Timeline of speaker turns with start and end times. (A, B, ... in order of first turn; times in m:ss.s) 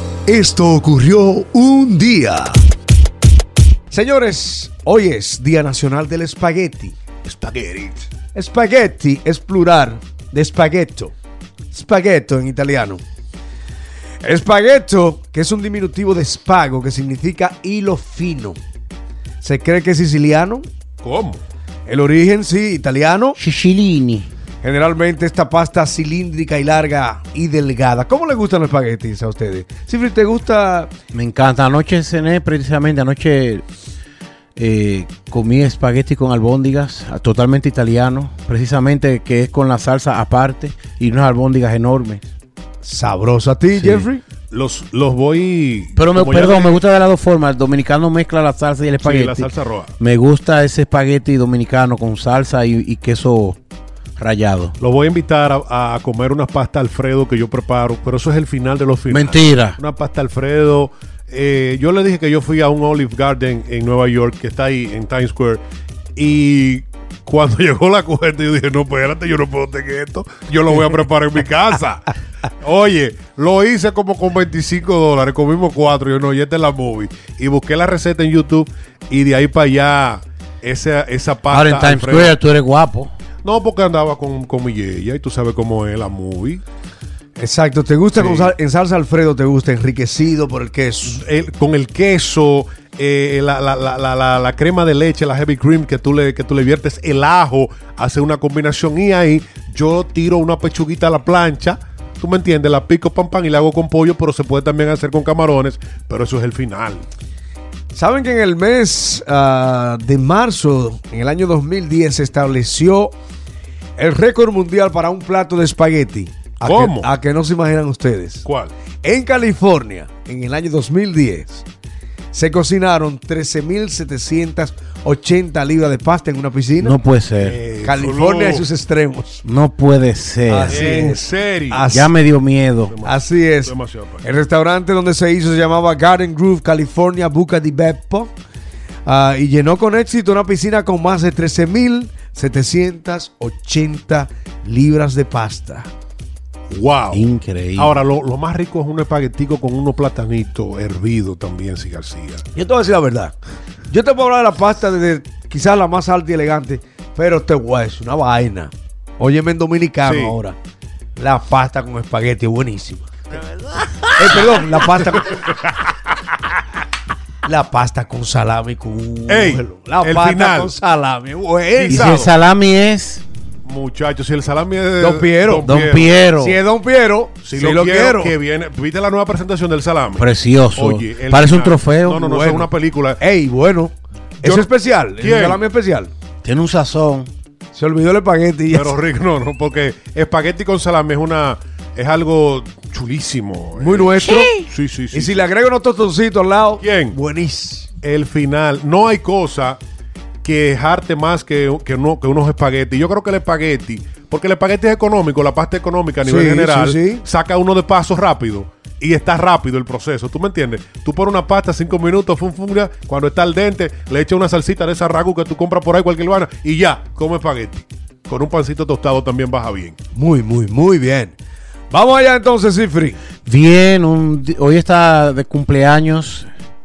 0:00.2-0:02.6 A
0:03.9-0:07.0 A
0:07.2-0:08.0 B
0:08.3-0:11.1 A
0:11.7-0:13.0 A
0:14.2-0:18.6 A
0:19.4-0:20.7 A
0:21.0-0:21.4 B
0:21.8-0:23.4 A
0:23.4-0:24.3 C
0:24.6-0:30.9 A
0:31.1-0:33.6 C
0:34.6-0:42.2 C
0:42.8-0:44.2 A
0:43.8-0:44.1 C
0:44.5-0:46.8 B
0:46.0-0:49.5 C
0:49.0-0:49.9 B
0:50.0-0:53.6 C
0:54.2-0:54.8 C
0:54.8-1:05.6 B
0:59.1-0:59.8 C
1:06.2-1:12.1 B
1:12.6-1:22.4 B
1:21.5-1:23.1 C
1:23.4-1:26.6 B
1:27.4-1:31.2 A
1:28.2-1:28.5 B
1:31.0-1:47.0 B
1:47.9-1:53.1 A
1:54.0-1:58.4 A
1:56.6-1:57.1 B
1:58.4-1:58.7 B
1:59.0-2:01.6 A
2:02.3-2:07.0 A
2:06.8-2:07.6 C
2:07.4-2:08.6 B
2:07.8-2:09.4 A
2:09.4-2:10.9 C
2:10.5-2:12.1 A
2:10.7-2:11.8 B
2:11.9-2:12.9 C
2:12.9-2:14.2 B
2:13.0-2:18.3 A
2:19.0-2:25.9 A
2:26.7-2:32.4 B
2:27.1-2:28.0 C
2:32.5-2:33.4 A
2:33.9-2:40.6 A
2:40.0-2:40.4 B
2:41.2-2:43.1 A
2:44.2-2:45.4 A
2:45.5-2:45.9 B
2:47.4-2:52.3 A
2:49.3-2:50.8 B
2:51.8-2:52.3 B
2:51.9-2:53.2 C
2:53.6-2:56.2 B
2:55.0-2:55.7 A
2:55.6-2:56.6 C
2:56.4-2:58.3 A
2:57.4-3:03.2 B
3:00.2-3:02.6 C
3:03.2-3:06.1 A
3:04.4-3:04.7 B
3:05.2-3:05.6 B
3:06.4-3:07.3 C
3:07.7-3:09.0 A
3:08.7-3:15.4 B
3:13.8-3:14.6 A
3:15.1-3:17.9 A
3:16.8-3:17.2 B
3:18.0-3:19.8 B
3:20.4-3:40.0 B
3:26.2-3:27.2 A
3:40.1-3:41.4 A
3:41.9-3:43.2 A
3:43.4-3:46.5 C